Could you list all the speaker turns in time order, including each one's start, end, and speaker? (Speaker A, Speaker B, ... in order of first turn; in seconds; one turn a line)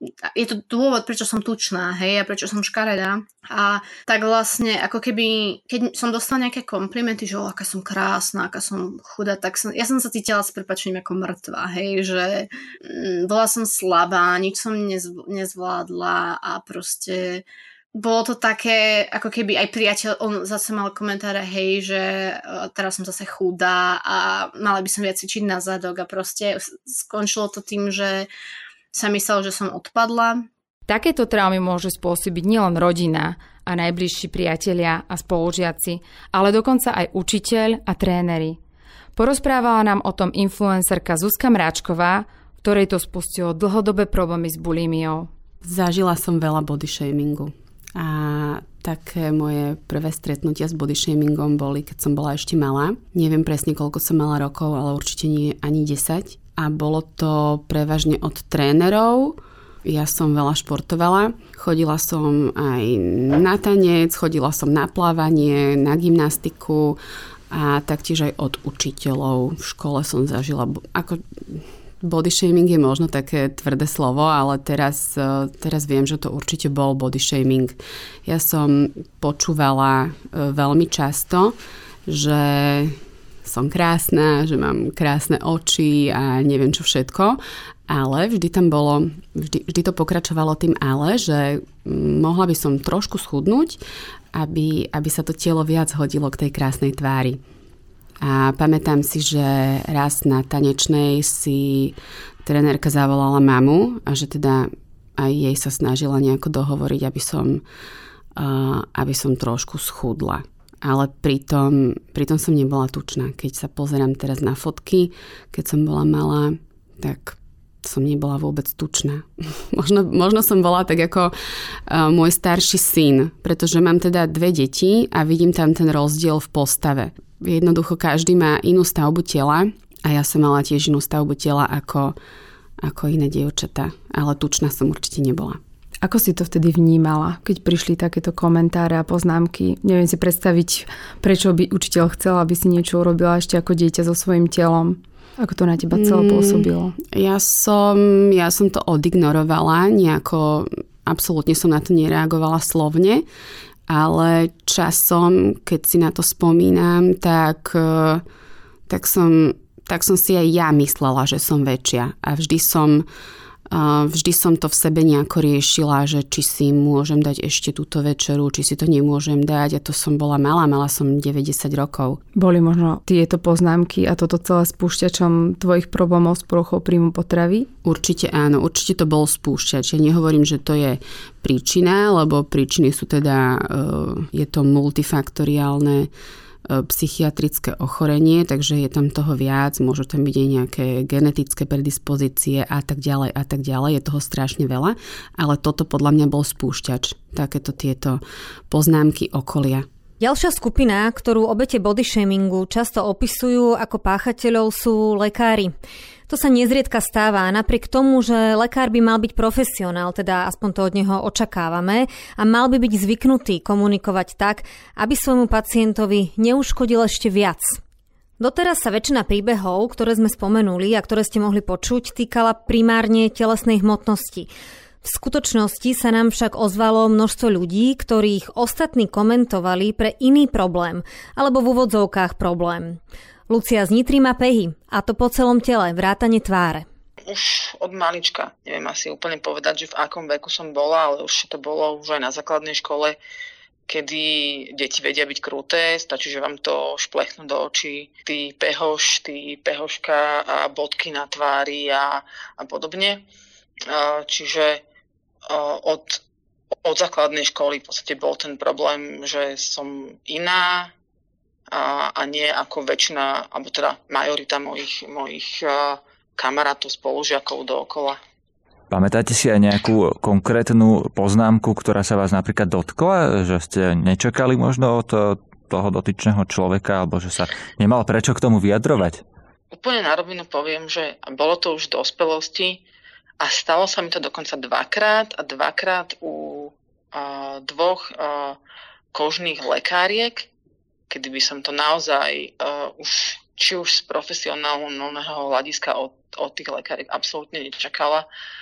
Speaker A: 0.3-28.3
Speaker A: 28.9-30.5
Speaker B: 30.9-38.6
Speaker B: 39.2-45.3
Speaker C: 45.6-67.0
Speaker C: 67.5-93.8
Speaker C: 94.3-97.4
Speaker C: 98.2-107.6
Speaker C: 108.4-121.3
Speaker C: 121.9-132.2
Speaker C: 132.8-135.6
Speaker B: 136.0-146.9
Speaker C: 145.9-153.3
Speaker C: 153.9-158.2
Speaker C: 158.9-163.1
Speaker C: 163.7-172.2
Speaker B: 172.3-177.7
Speaker C: 177.8-186.1
Speaker C: 186.7-199.9
Speaker D: 200.2-205.8
Speaker D: 206.3-217.8
Speaker D: 218.4-224.5
Speaker D: 225.0-236.9
Speaker E: 237.3-243.2
Speaker E: 243.9-253.3
Speaker E: 253.8-254.8
Speaker E: 255.5-256.2
Speaker E: 256.8-260.9
Speaker E: 261.7-268.2
Speaker F: 268.9-279.2
Speaker E: 279.7-282.8
Speaker E: 283.4-288.6
Speaker E: 289.1-290.5
Speaker E: 291.1-298.3